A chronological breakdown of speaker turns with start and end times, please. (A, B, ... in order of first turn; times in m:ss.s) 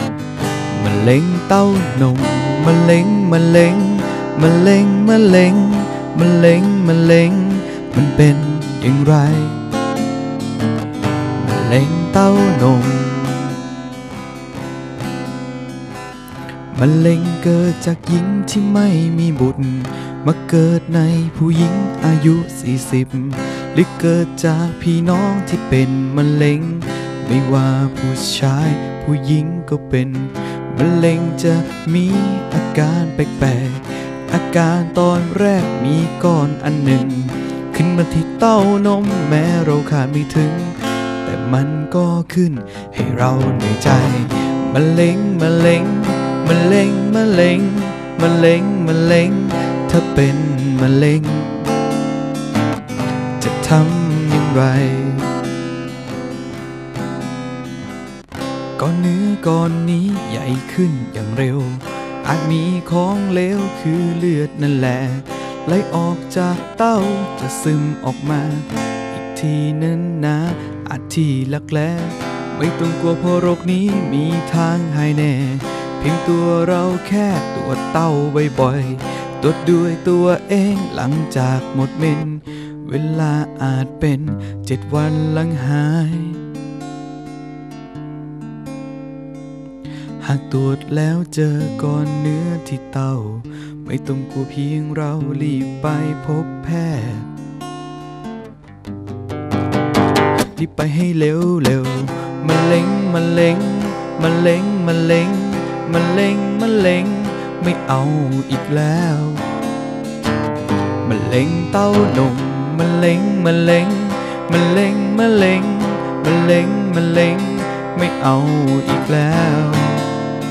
0:00.7-0:09.6 A
0:11.4-0:13.6 A
0:16.7-0:51.7 A
0:53.4-0:55.3 A
0:58.8-1:26.4 A
1:30.2-1:37.3 A
1:40.5-1:49.4 A
1:51.0-2:00.0 A